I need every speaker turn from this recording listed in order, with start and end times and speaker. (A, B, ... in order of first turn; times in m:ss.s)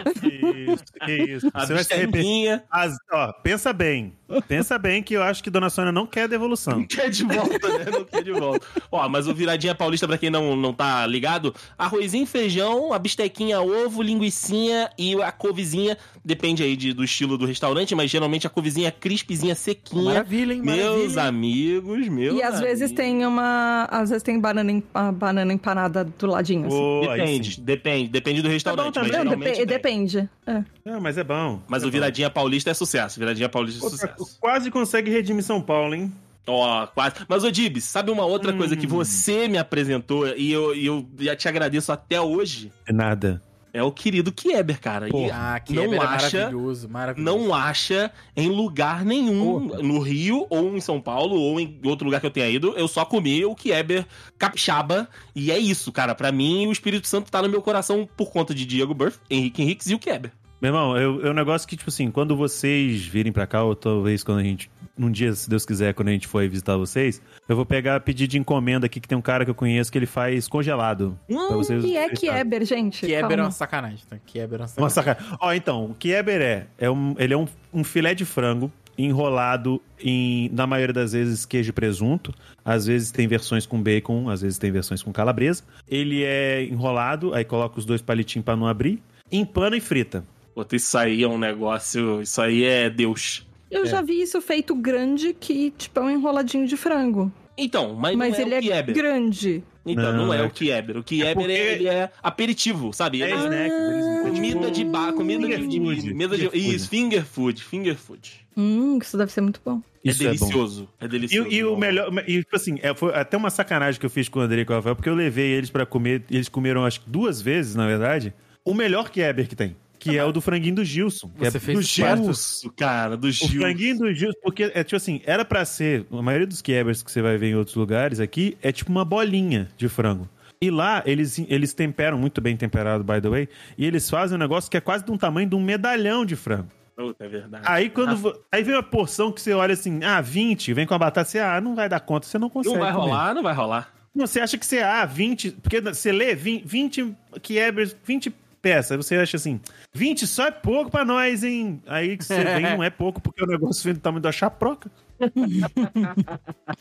0:00.1-0:06.9 A
0:01.6-0:02.6 B
0:06.7-0:23.2 B
0:20.0-0:21.3 C
0:22.3-0:26.9 D
0:26.6-0:27.6 A
0:27.0-0:29.8 B
0:28.6-0:29.4 A
0:29.0-0:30.7 D
0:30.8-0:32.2 A
0:31.7-0:34.3 B
0:33.8-0:36.2 A
0:36.5-0:42.7 B
0:38.4-0:39.3 A
0:42.9-0:43.4 A
0:43.7-0:46.6 B
0:45.1-0:45.4 A
0:45.3-0:47.5 C
0:47.2-1:00.3 B
0:49.4-0:49.8 A
1:00.6-1:12.4 A
1:11.3-1:12.0 B
1:11.6-1:13.6 D
1:13.0-1:15.0 C
1:14.8-1:30.3 A
1:30.6-1:33.5 B
1:33.7-1:37.4 D
1:37.6-1:39.0 B
1:38.1-1:39.7 D
1:39.8-1:48.4 B
1:39.9-1:40.6 A
1:41.2-1:41.8 A
1:43.2-1:46.9 A
1:43.3-1:45.8 D
1:48.6-1:49.9 D
1:50.0-1:50.6 A
1:50.1-1:52.0 B
1:51.3-2:02.4 A
2:01.4-2:02.4 C
2:01.7-2:03.9 B
2:03.4-2:16.7 A
2:17.0-2:18.2 B
2:17.6-2:23.2 A
2:22.6-2:23.9 B
2:24.1-2:34.9 A
2:32.3-2:32.8 C
2:35.3-2:36.4 B
2:35.4-2:36.2 D